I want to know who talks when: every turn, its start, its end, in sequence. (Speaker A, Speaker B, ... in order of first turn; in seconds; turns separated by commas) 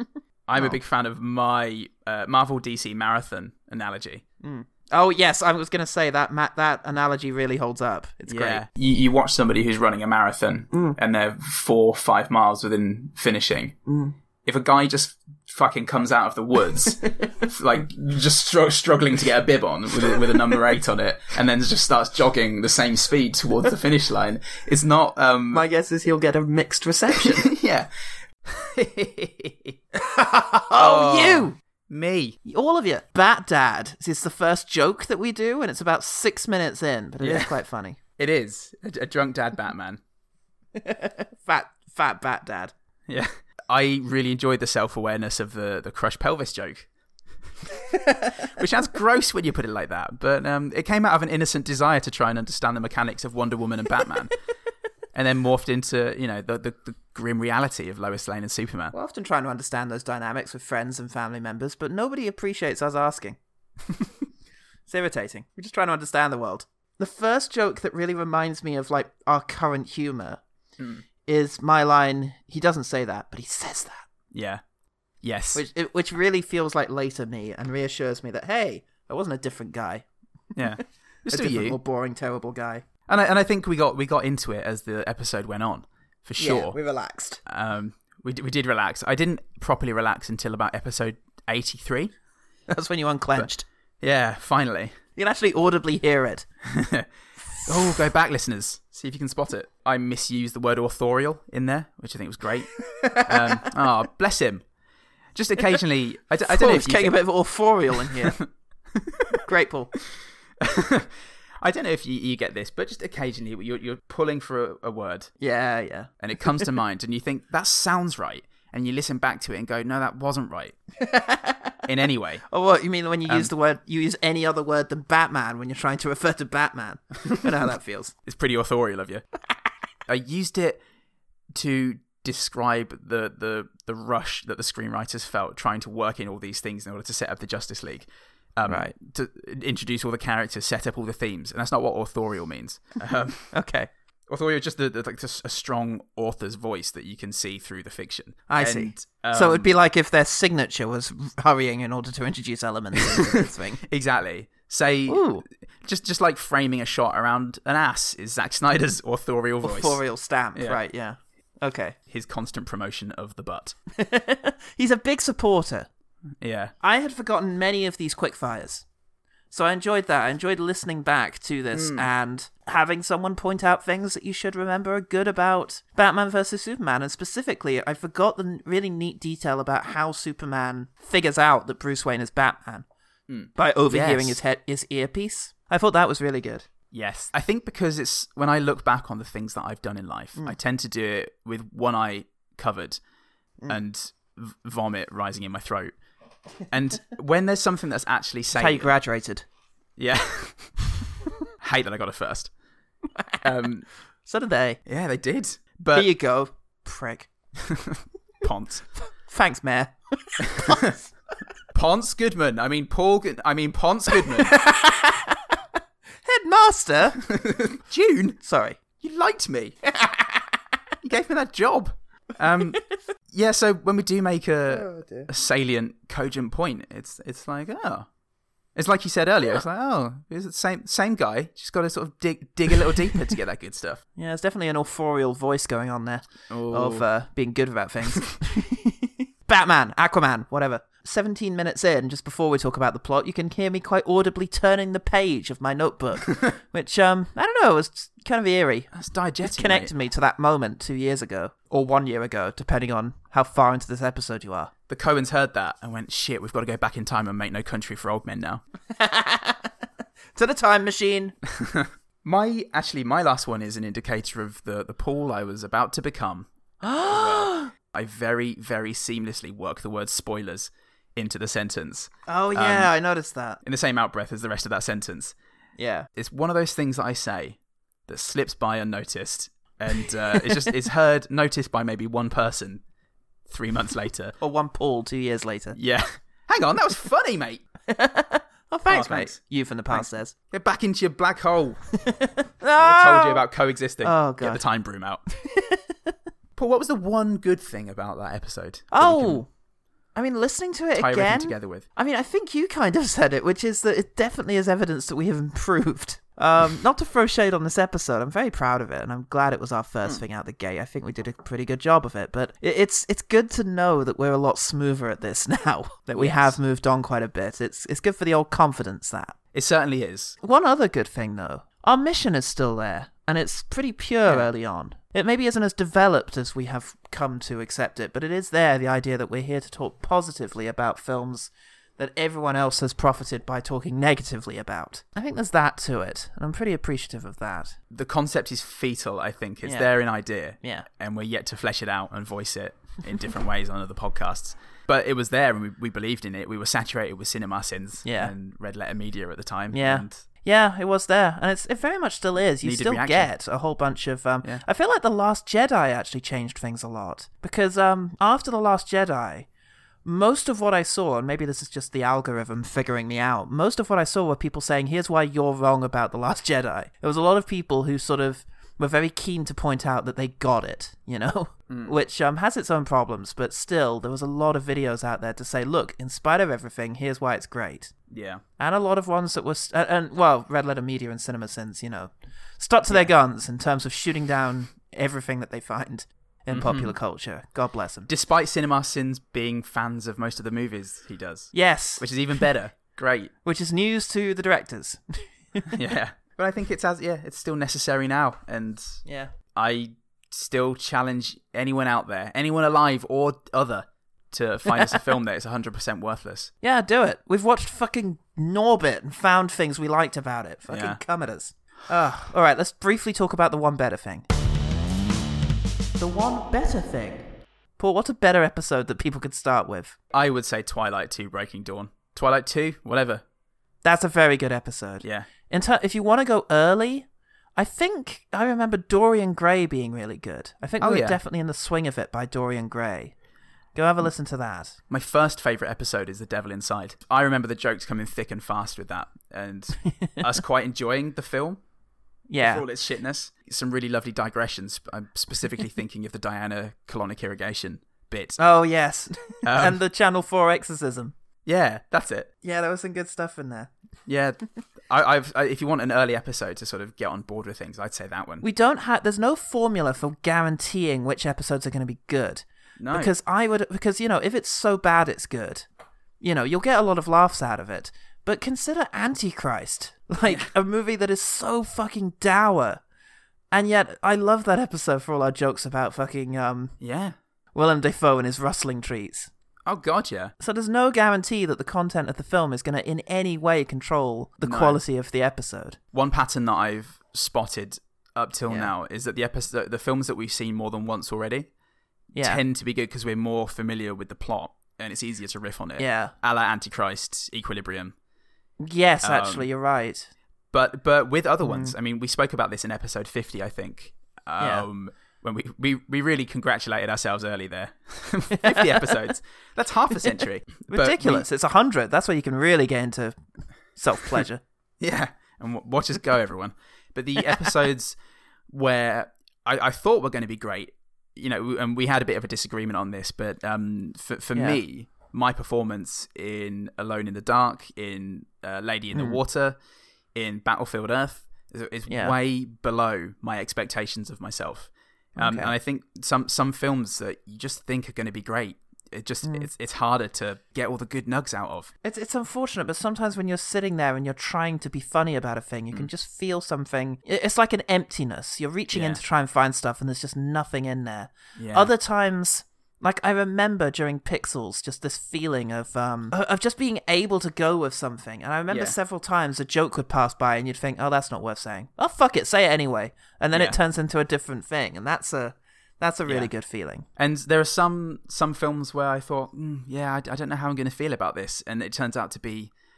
Speaker A: 0.5-4.2, Speaker B: 4.4-8.7, Speaker A: 8.3-13.8, Speaker A: 14.4-25.6, Speaker C: 25.5-27.5, Speaker A: 27.1-27.9, Speaker A: 28.5-29.8, Speaker B: 30.5-31.6, Speaker A: 30.7-32.4, Speaker B: 32.5-38.0, Speaker A: 37.2-37.6, Speaker A: 38.2-40.0, Speaker B: 40.8-42.7, Speaker A: 43.1-46.9, Speaker A: 48.4-54.3, Speaker A: 55.1-58.9, Speaker B: 58.9-63.4, Speaker B: 64.9-70.4, Speaker A: 70.8-71.0, Speaker B: 71.3-74.0, Speaker A: 74.3-74.6, Speaker A: 75.2-75.6, Speaker B: 75.5-80.0, Speaker A: 80.6-81.8, Speaker B: 81.3-82.8, Speaker A: 83.1-86.8, Speaker B: 86.4-87.4, Speaker A: 87.5-92.1, Speaker B: 92.7-93.7, Speaker A: 94.0-95.0, Speaker B: 95.2-96.5, Speaker A: 96.7-97.1, Speaker A: 97.7-104.6, Speaker B: 103.0-103.3, Speaker A: 105.3-107.2, Speaker B: 106.5-108.4, Speaker A: 108.0-109.3, Speaker B: 109.4-109.9, Speaker A: 110.6-115.3, Speaker B: 115.4-116.7, Speaker A: 116.2-120.8, Speaker B: 121.0-121.7, Speaker A: 121.9-122.4, Speaker B: 122.5-128.1, Speaker A: 128.3-129.2, Speaker A: 130.1-130.8, Speaker A: 131.5-143.5, Speaker B: 138.7-138.9, Speaker B: 143.5-143.9, Speaker A: 144.3-149.7, Speaker B: 148.5-153.8, Speaker A: 153.8-160.0, Speaker B: 155.1-155.4, Speaker B: 159.6-162.0, Speaker A: 160.6-160.8, Speaker A: 162.1-163.8, Speaker B: 164.0-165.9, Speaker A: 166.4-166.7, Speaker B: 166.8-168.8, Speaker B: 169.5-182.9, Speaker A: 171.7-172.1, Speaker A: 183.3-184.4, Speaker B: 183.6-186.7, Speaker A: 186.9-193.0, Speaker A: 193.7-195.9, Speaker A: 196.7-198.9, Speaker B: 198.6-199.4, Speaker A: 200.0-200.8, Speaker A: 201.6-202.5, Speaker A: 203.4-203.9, Speaker B: 204.3-204.8, Speaker A: 204.9-206.1, Speaker B: 205.9-207.3, Speaker A: 207.7-208.9, Speaker B: 209.3-211.0, Speaker A: 210.5-210.9, Speaker A: 211.7-214.6, Speaker B: 214.4-215.4, Speaker B: 216.2-217.2, Speaker A: 217.2-218.4, Speaker B: 218.4-218.8, Speaker A: 219.0-219.8, Speaker A: 221.0-228.1, Speaker B: 224.7-225.3, Speaker A: 228.8-234.0, Speaker B: 234.2-248.9, Speaker A: 236.5-237.1, Speaker A: 248.9-249.9, Speaker B: 249.4-254.7, Speaker A: 254.9-258.6, Speaker B: 258.9-259.7, Speaker B: 260.4-261.4, Speaker A: 261.5-272.9, Speaker B: 266.8-267.7, Speaker B: 272.3-273.6, Speaker A: 273.6-275.4, Speaker B: 275.8-276.1, Speaker A: 276.2-282.8, Speaker A: 283.5-284.4, Speaker B: 284.4-285.8, Speaker A: 285.8-287.6, Speaker B: 287.9-290.3, Speaker A: 288.9-289.4, Speaker A: 289.9-291.8, Speaker B: 292.1-293.4, Speaker A: 292.8-295.2, Speaker B: 294.0-294.6, Speaker B: 295.4-295.8, Speaker A: 296.6-299.4, Speaker B: 298.9-299.5, Speaker B: 300.1-319.4, Speaker A: 300.9-301.9, Speaker A: 316.1-316.6, Speaker A: 319.5-320.4, Speaker B: 320.4-337.8, Speaker A: 337.9-350.2, Speaker B: 339.6-339.9, Speaker B: 340.6-340.9, Speaker B: 348.0-348.3, Speaker B: 349.7-359.5, Speaker A: 352.6-353.3, Speaker B: 360.1-377.9, Speaker A: 371.7-371.9, Speaker A: 378.1-378.4, Speaker B: 378.6-388.1, Speaker A: 386.5-386.9, Speaker A: 388.1-393.3, Speaker B: 391.5-392.5, Speaker B: 393.4-395.0, Speaker A: 395.7-399.0, Speaker B: 399.1-399.3, Speaker A: 399.5-406.5, Speaker B: 404.7-405.0, Speaker B: 406.6-414.3, Speaker A: 410.7-411.0, Speaker B: 416.0-420.0, Speaker A: 420.1-423.2, Speaker B: 423.8-433.1, Speaker A: 425.0-425.3, Speaker A: 430.8-431.2, Speaker B: 433.8-434.8, Speaker A: 434.9-441.6, Speaker B: 442.3-442.7, Speaker A: 442.4-448.4, Speaker B: 448.4-451.1, Speaker A: 449.4-449.8, Speaker A: 451.5-452.3, Speaker B: 452.4-453.7, Speaker A: 454.1-458.5, Speaker B: 458.4-465.7, Speaker A: 462.8-463.1, Speaker B: 466.2-472.8, Speaker A: 470.2-470.5, Speaker B: 473.5-476.8, Speaker A: 476.8-477.2, Speaker B: 477.5-479.3, Speaker A: 479.6-480.3, Speaker B: 480.4-485.8, Speaker A: 484.4-484.8, Speaker A: 485.9-491.5, Speaker B: 492.1-492.4, Speaker A: 492.2-497.9, Speaker B: 495.8-496.1, Speaker B: 498.6-500.1, Speaker A: 499.0-499.5, Speaker A: 500.5-511.3, Speaker B: 501.4-501.7, Speaker B: 504.4-504.7, Speaker B: 508.4-509.1, Speaker B: 510.7-513.2, Speaker B: 513.7-514.4, Speaker A: 514.8-518.0, Speaker A: 518.5-529.6, Speaker B: 524.3-524.6, Speaker B: 528.9-529.2, Speaker A: 530.1-541.7, Speaker B: 531.9-532.2, Speaker B: 535.2-535.5, Speaker B: 539.2-539.5, Speaker B: 541.8-566.9, Speaker A: 548.7-549.0, Speaker A: 551.4-551.7, Speaker A: 558.5-558.8, Speaker A: 563.3-563.6, Speaker A: 567.0-572.5